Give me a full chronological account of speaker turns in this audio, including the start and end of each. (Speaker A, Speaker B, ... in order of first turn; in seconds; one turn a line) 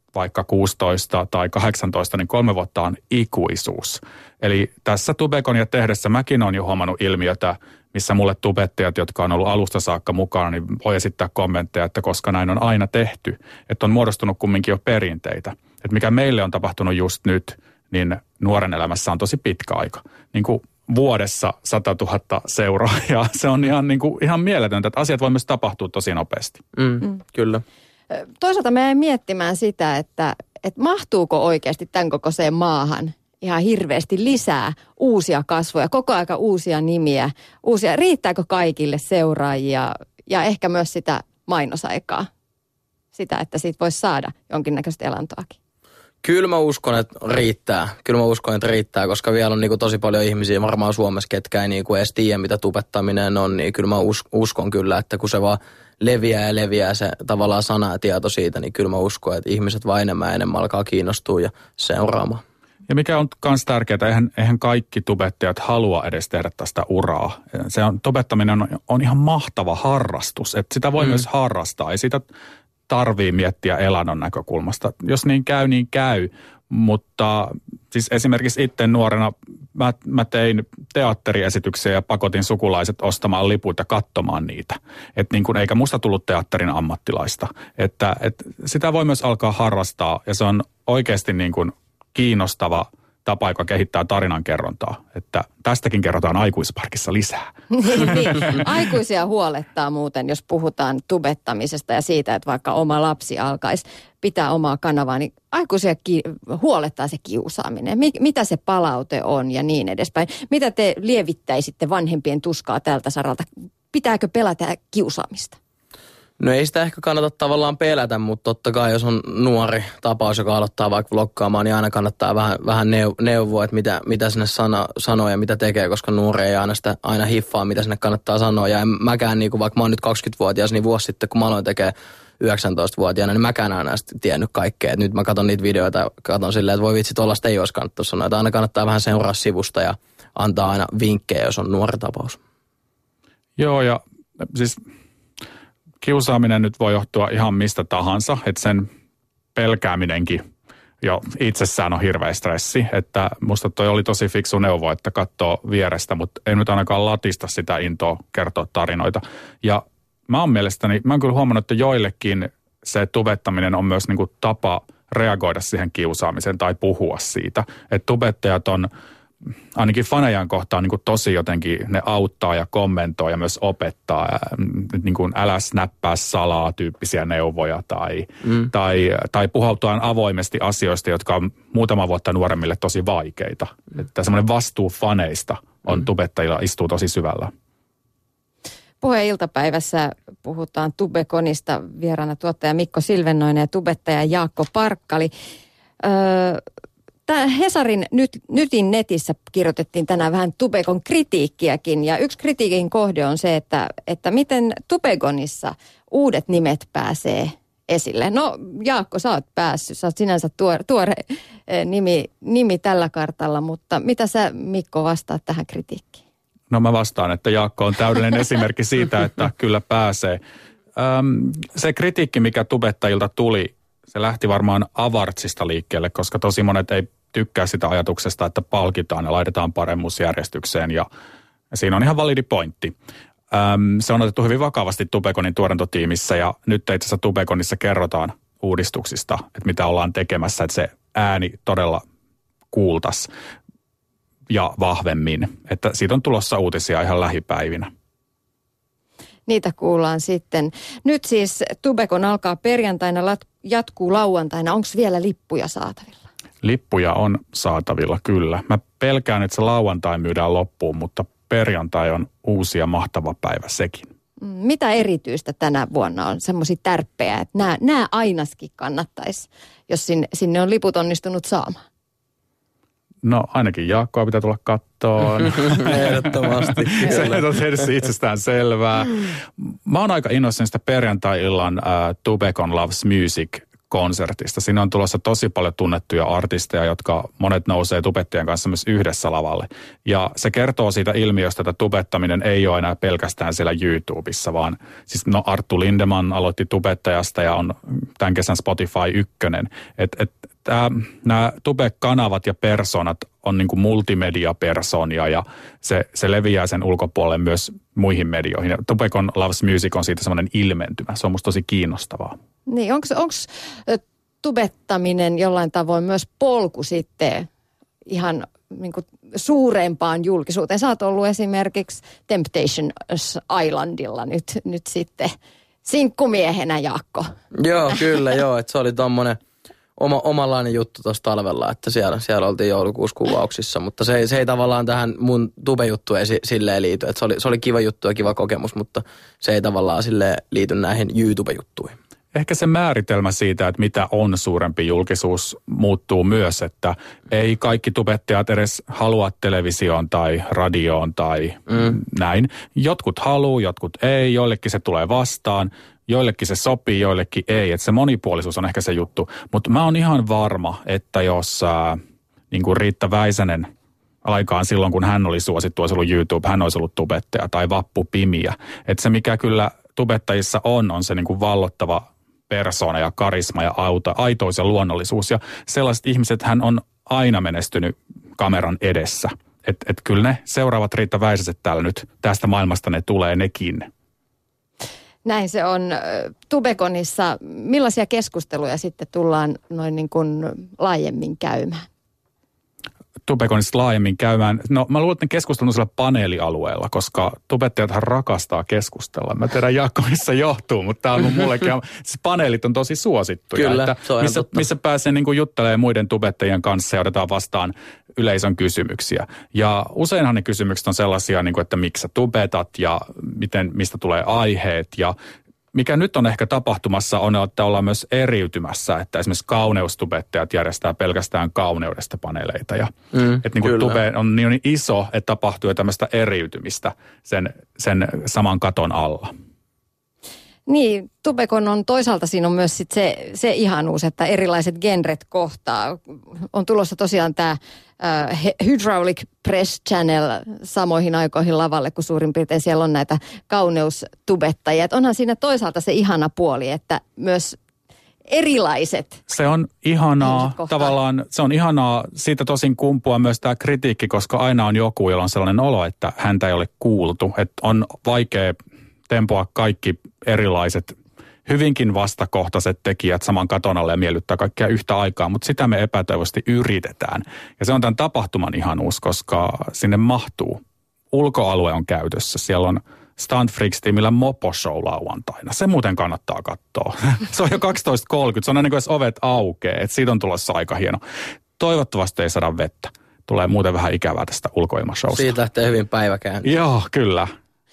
Speaker A: 0.1-26.6
Speaker B: 26.8-27.6
Speaker C: 28.1-42.3
Speaker C: 43.1-45.6
Speaker B: 46.2-62.4
Speaker A: 62.9-72.2
Speaker A: 72.9-98.6
Speaker C: 97.7-115.6
Speaker B: 116.4-142.4
Speaker A: 143.6-144.8
Speaker A: 146.0-148.9
Speaker A: 149.6-150.4
Speaker A: 151.0-168.9
Speaker A: 169.8-187.5
Speaker C: 189.0-195.3
Speaker C: 196.0-196.6
Speaker C: 197.3-216.2
Speaker A: 216.7-220.4
Speaker A: 221.0-231.1
Speaker A: 231.7-232.9
Speaker A: 233.5-242.0
Speaker A: 242.7-243.3
Speaker A: 244.5-247.9
Speaker C: 249.5-256.2
Speaker A: 256.6-264.1
Speaker C: 264.4-271.8
Speaker A: 273.2-312.4
Speaker B: 275.5-277.4
Speaker C: 312.7-317.5
Speaker C: 318.1-325.3
Speaker C: 325.9-327.3
Speaker B: 327.6-329.4
Speaker B: 330.0-341.9
Speaker A: 342.3-363.7
Speaker A: 364.2-383.9
Speaker C: 385.2-391.9
Speaker A: 393.3-415.1
Speaker B: 403.6-404.7
Speaker A: 415.7-429.3
Speaker B: 423.1-424.0
Speaker C: 430.7-447.6
Speaker C: 448.3-449.2
Speaker A: 449.3-458.6
Speaker C: 450.2-450.9
Speaker A: 459.1-470.6
Speaker A: 471.1-481.0
Speaker A: 481.6-485.3
Speaker B: 485.1-486.5
Speaker A: 486.4-487.3